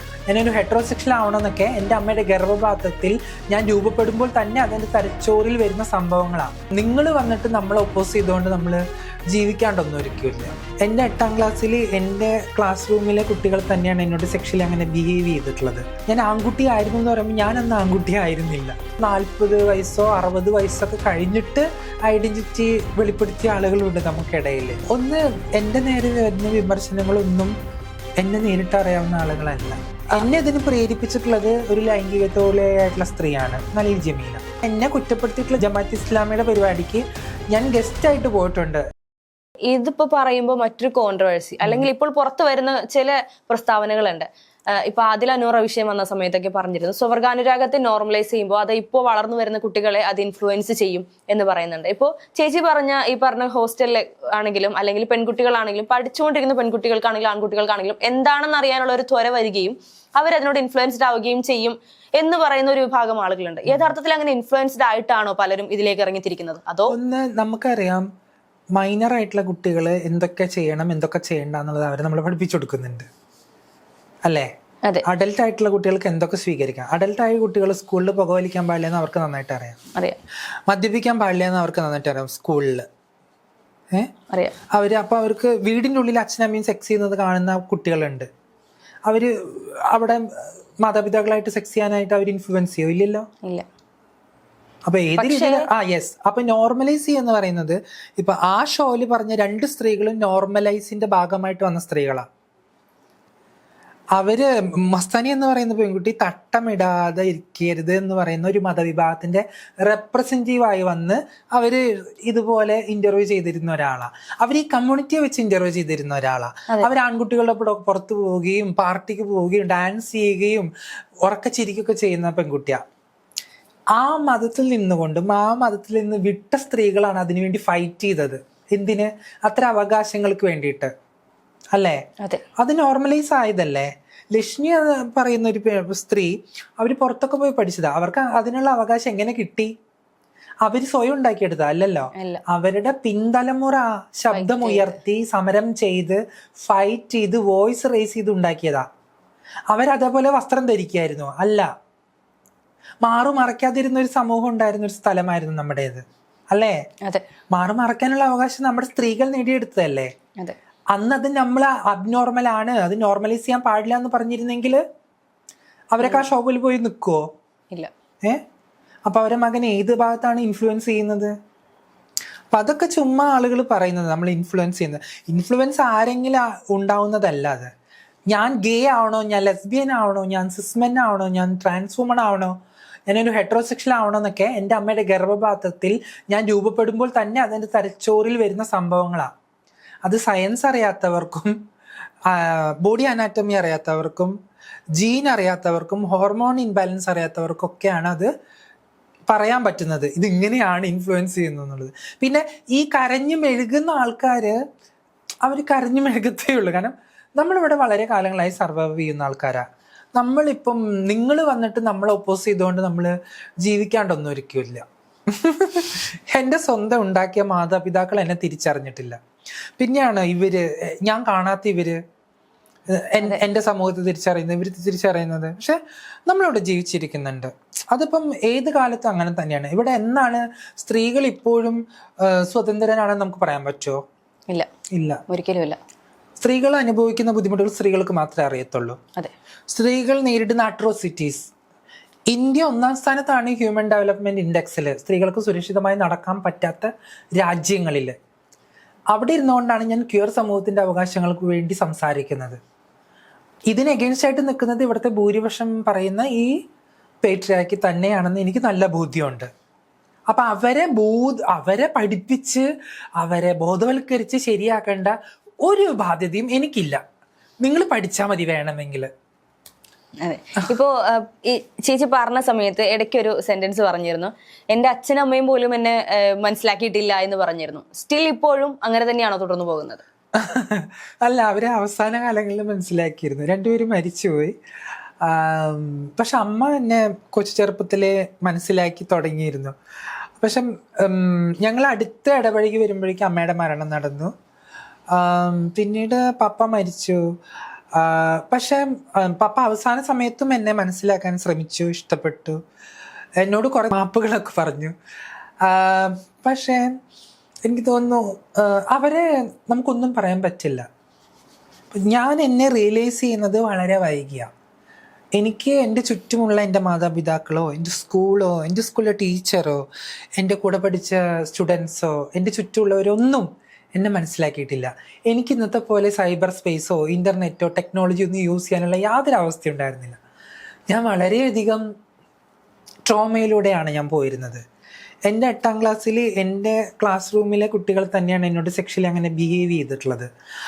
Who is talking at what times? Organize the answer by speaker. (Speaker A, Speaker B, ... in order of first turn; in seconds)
Speaker A: 0.3-27.5, 28.2-38.8, 63.7-63.9, 66.9-68.1, 68.8-73.1, 75.0-79.8, 80.7-82.8, 84.7-88.3, 89.1-93.3, 94.9-102.2, 104.2-120.7, 121.2-122.8, 124.0-130.9, 131.7-132.0, 132.6-139.7, 140.6-148.8, 149.7-151.7, 153.0-156.8, 157.5-160.1, 160.9-164.8, 165.9-167.3, 169.1-171.3, 172.5-177.7, 178.3-182.5, 183.1-189.3, 190.1-191.6, 192.3-194.3, 194.9-198.3, 199.3-204.6, 205.4-209.6, 210.2-219.2, 219.8-222.0, 222.9-234.0, 234.9-235.2, 236.4-239.0, 239.7-241.5, 242.3-248.2, 249.1-252.6, 253.7-256.5, 257.2-259.5, 260.3-262.7, 263.2-267.0, 267.6-269.1, 280.4-284.5, 285.2-289.7, 290.4-294.3, 295.1-297.2, 297.9-302.6, 303.4-304.9, 305.6-306.9, 307.7-310.9, 311.9-314.5, 315.4-319.8, 320.4-330.2, 330.9-331.9, 333.1-334.6, 335.3-340.3
Speaker B: 39.7-66.9, 84.3-84.5, 95.2-95.7, 142.1-142.4, 144.3-145.0, 166.0-166.3, 235.3-235.8, 270.2-280.0